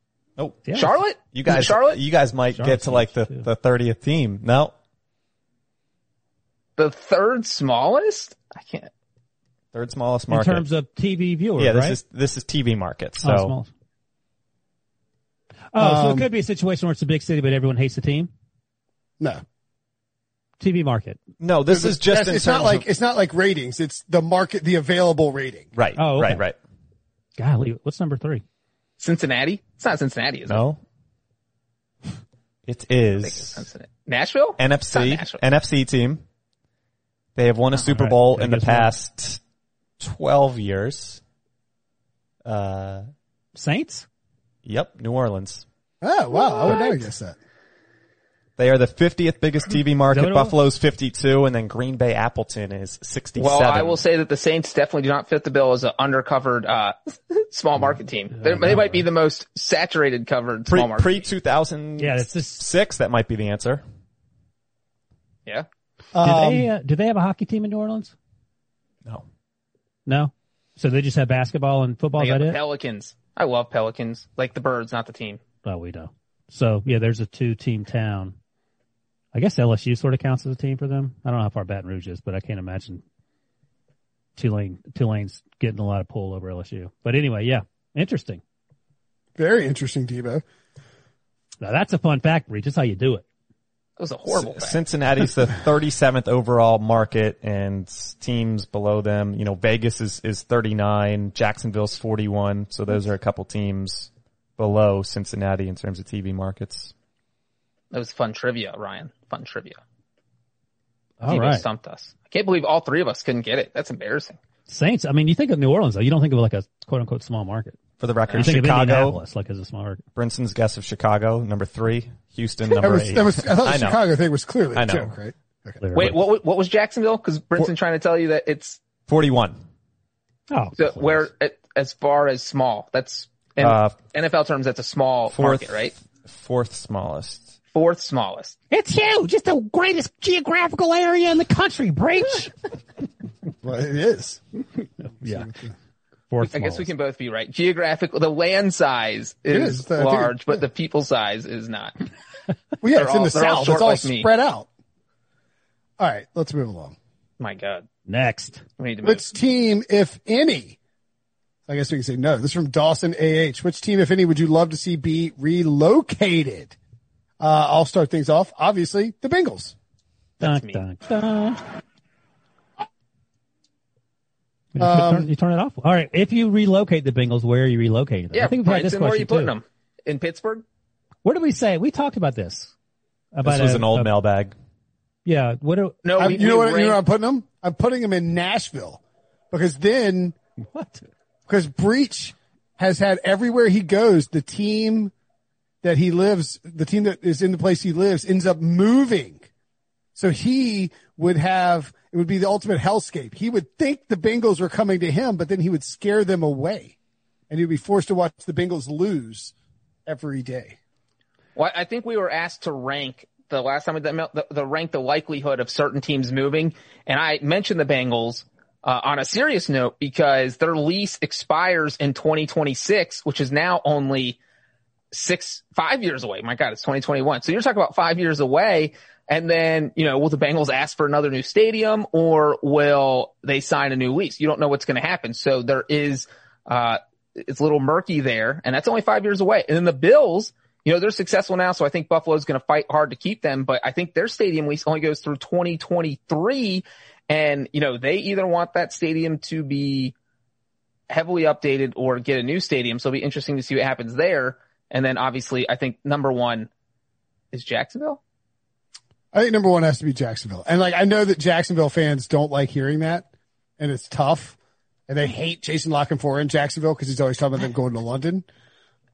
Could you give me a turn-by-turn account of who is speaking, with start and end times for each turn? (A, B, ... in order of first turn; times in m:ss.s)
0:00.4-0:00.7 A
0:00.7-0:01.0 B
0:00.8-0:02.0 C
0:01.3-0:04.7 A
0:02.5-0:03.5 B
0:06.8-0:08.9 C
0:09.7-0:10.6 A
0:10.3-0:12.0 B
0:11.6-0:13.5 A
0:13.2-0:13.7 B
0:15.7-0:18.3 B
0:15.8-0:16.3 D
0:20.6-0:21.2 B
0:21.4-0:22.8 A
0:21.7-0:25.7 D
0:25.8-0:26.6 A
0:26.0-0:26.4 B
0:27.4-0:28.4 B
0:29.0-0:30.6 C
0:30.5-0:30.8 A
0:32.7-0:33.6 A
0:33.1-0:35.4 C
0:34.6-0:36.2 A
0:37.4-0:39.4 A
0:37.8-0:38.9 B
0:40.0-0:41.2 A
0:42.4-0:43.1 A
0:43.6-0:44.1 B
0:44.6-0:45.6 A
0:46.0-0:47.4 D
0:48.6-0:54.0 A
0:50.1-0:50.6 B
0:53.4-1:01.2 C
0:58.4-0:59.0 B
1:00.7-1:03.8 A
1:02.0-1:02.6 B
1:06.1-1:06.7 D
1:06.2-1:08.1 B
1:10.1-1:12.6 B
1:12.2-1:15.4 C
1:15.6-1:18.4 B
1:19.3-1:23.0 B
1:24.4-1:28.4 B
1:29.4-1:30.4 D
1:31.6-1:33.2 B
1:34.0-1:34.8 C
1:34.3-1:46.9 A
1:47.9-1:49.8 C
1:51.2-1:51.7 B
1:51.3-1:54.4 C
1:54.7-1:57.8 B
1:58.0-1:59.2 A
1:58.3-2:00.0 B
2:00.2-2:04.0 A
2:02.8-2:05.8 D
2:04.7-2:05.1 A
2:05.8-2:06.2 B
2:06.0-2:08.8 C
2:09.1-2:09.6 A
2:10.5-2:11.3 B
2:10.8-2:15.9 C
2:13.6-2:14.0 A
2:15.3-2:17.5 A
2:17.7-2:18.6 C
2:18.7-2:22.5 B
2:23.6-2:24.4 D
2:25.0-2:25.5 B
2:25.2-2:25.7 D
2:26.3-2:26.9 B
2:26.4-2:32.0 C
2:29.5-2:30.6 D
2:32.8-2:34.7 D
2:32.9-2:34.3 C
2:36.0-2:37.0 D
2:37.4-2:37.9 C
2:38.1-2:38.6 B
2:38.8-2:39.2 C
2:39.0-2:40.8 D
2:41.7-2:46.8 D
2:47.4-2:49.8 D
2:50.4-2:51.6 B
2:50.4-2:50.8 C
2:54.7-2:59.5 B
2:54.8-2:55.3 D
2:58.3-3:00.6 C
3:01.2-3:02.7 B
3:03.3-3:04.1 B
3:03.4-3:04.6 A
3:05.3-3:06.0 B
3:06.0-3:07.0 C
3:06.2-3:10.4 D
3:10.6-3:11.0 B
3:11.5-3:15.1 D
3:15.8-3:19.4 D
3:20.2-3:27.0 D
3:27.5-3:29.5 D
3:30.1-3:30.8 D
3:31.6-3:44.4 C
3:45.1-4:10.1 C
4:11.1-4:16.7 C
4:17.5-4:18.2 C
4:19.3-4:23.3 D
4:23.8-4:24.6 D
4:25.1-4:28.5 D